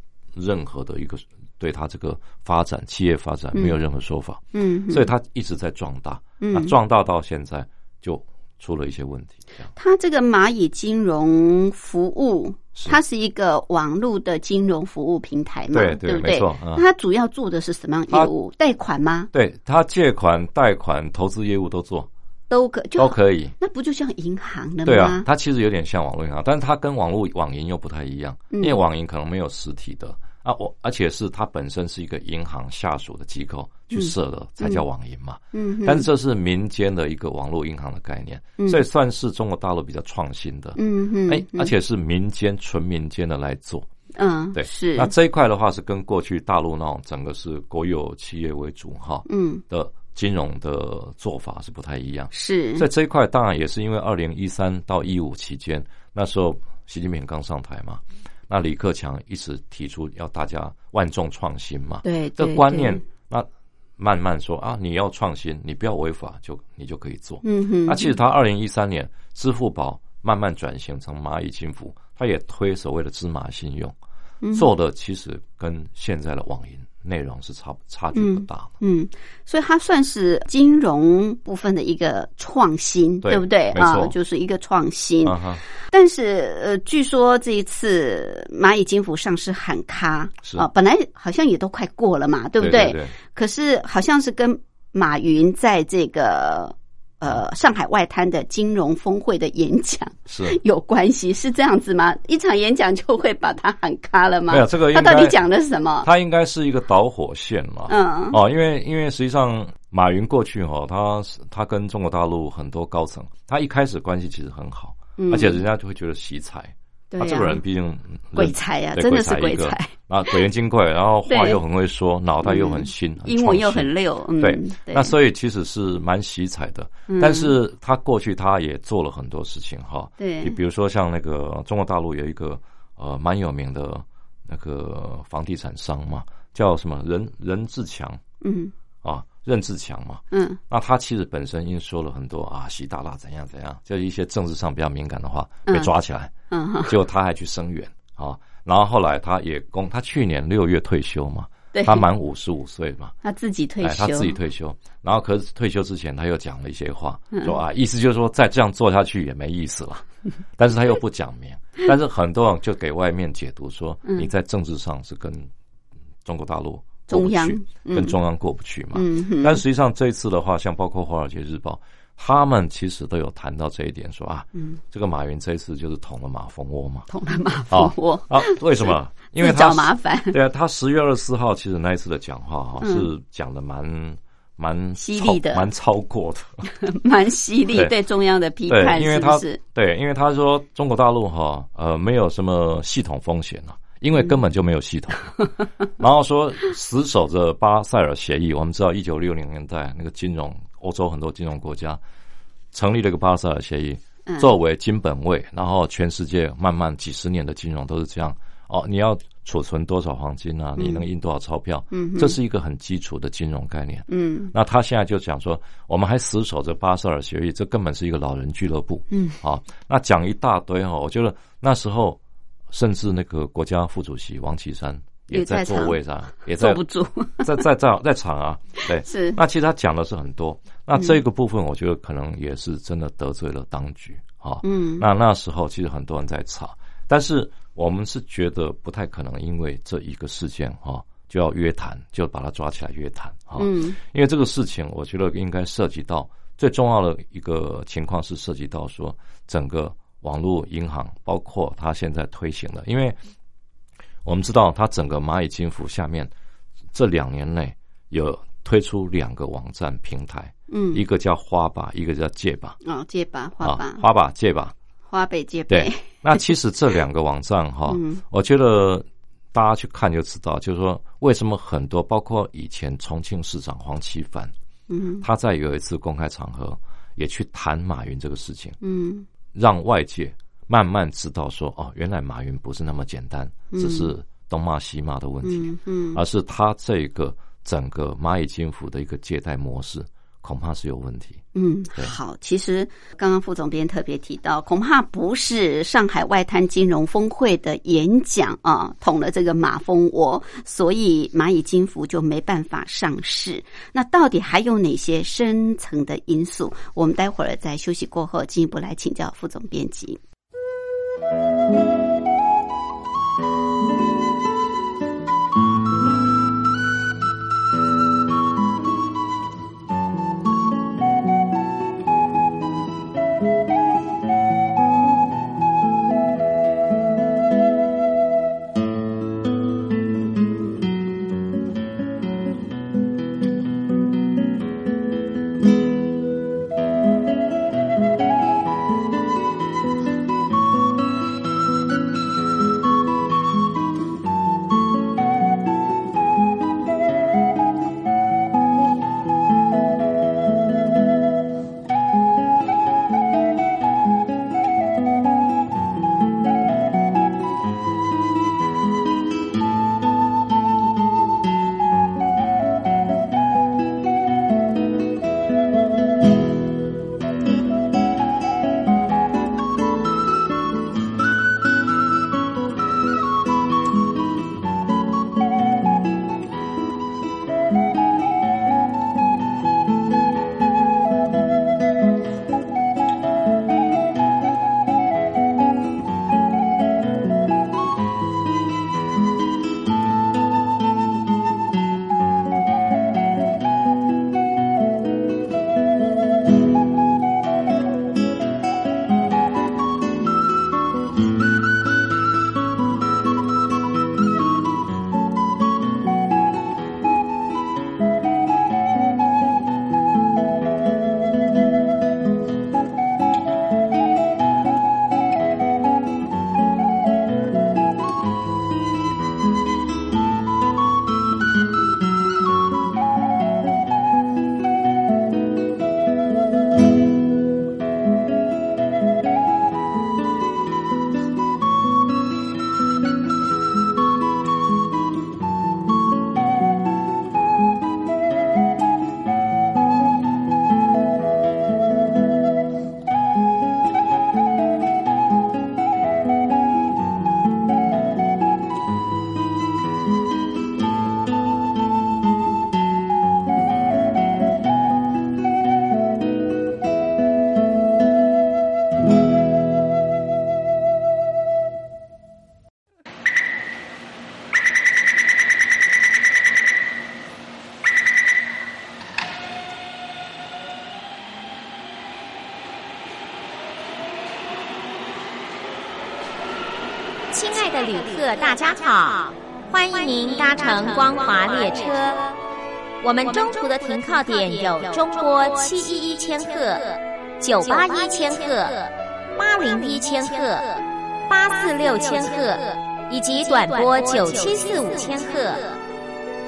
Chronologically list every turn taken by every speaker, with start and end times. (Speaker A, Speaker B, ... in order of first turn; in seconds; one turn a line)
Speaker A: 0.3-9.7
Speaker B: 4.5-5.1
Speaker B: 6.4-6.8
Speaker B: 9.8-19.3
Speaker A: 15.7-16.8
Speaker A: 19.3-22.1
Speaker B: 22.5-25.3
Speaker A: 23.0-23.6
Speaker A: 24.9-43.9
Speaker B: 28.5-28.8
Speaker B: 33.9-34.8
Speaker B: 35.5-36.1
Speaker B: 40.8-41.7
Speaker B: 44.2-45.1
Speaker A: 44.5-74.0
Speaker B: 49.3-49.6
Speaker B: 52.3-52.9
Speaker B: 62.0-63.0
Speaker B: 67.4-68.2
Speaker B: 74.4-74.7
Speaker A: 74.5-78.7
Speaker B: 78.1-85.4
Speaker A: 83.2-84.2
Speaker A: 85.2-85.6
Speaker B: 85.9-106.1
Speaker A: 92.6-93.2
Speaker A: 100.3-100.6
Speaker A: 104.5-105.4
Speaker A: 106.0-138.2
Speaker B: 107.9-108.4
Speaker B: 115.2-115.6
Speaker B: 117.1-117.6
Speaker B: 118.3-120.4
Speaker B: 121.3-121.6
Speaker B: 122.4-125.2
Speaker B: 127.1-127.5
Speaker B: 130.2-130.6
Speaker B: 138.4-138.7
Speaker A: 139.0-146.3
Speaker B: 140.3-140.6
Speaker B: 146.5-147.0
Speaker A: 146.9-153.1
Speaker B: 151.7-152.1
Speaker B: 153.2-154.4
Speaker A: 153.8-160.1
Speaker B: 157.3-157.6
Speaker A: 160.6-165.5
Speaker A: 166.2-177.1
Speaker B: 167.1-168.2
Speaker B: 168.9-169.6
Speaker B: 177.1-180.4
Speaker A: 177.7-186.7
Speaker B: 182.8-183.1
Speaker B: 185.0-185.7
Speaker B: 186.7-189.6
Speaker A: 188.7-195.3
Speaker A: 196.0-202.0
Speaker A: 202.7-222.2
Speaker B: 210.8-211.0
Speaker B: 211.9-212.4
Speaker B: 214.1-214.5
Speaker B: 219.1-219.4
Speaker A: 222.7-226.8
Speaker B: 225.3-226.0
Speaker B: 226.5-227.6
Speaker A: 227.4-253.2
Speaker B: 229.0-229.4
Speaker B: 234.6-235.1
Speaker B: 243.6-244.0
Speaker A: 254.2-256.3
Speaker A: 256.9-262.8
Speaker B: 260.7-261.0
Speaker B: 262.8-264.0
Speaker A: 263.6-264.8
Speaker B: 265.1-266.4
Speaker A: 265.7-274.5
Speaker B: 267.9-268.2
Speaker B: 274.9-275.2
Speaker A: 275.2-278.8
Speaker B: 278.8-279.3
Speaker A: 279.5-291.4
Speaker B: 283.7-284.1
Speaker B: 285.4-286.2
Speaker B: 291.6-310.2
Speaker C: 477.3-482.4
Speaker C: 483.0-495.8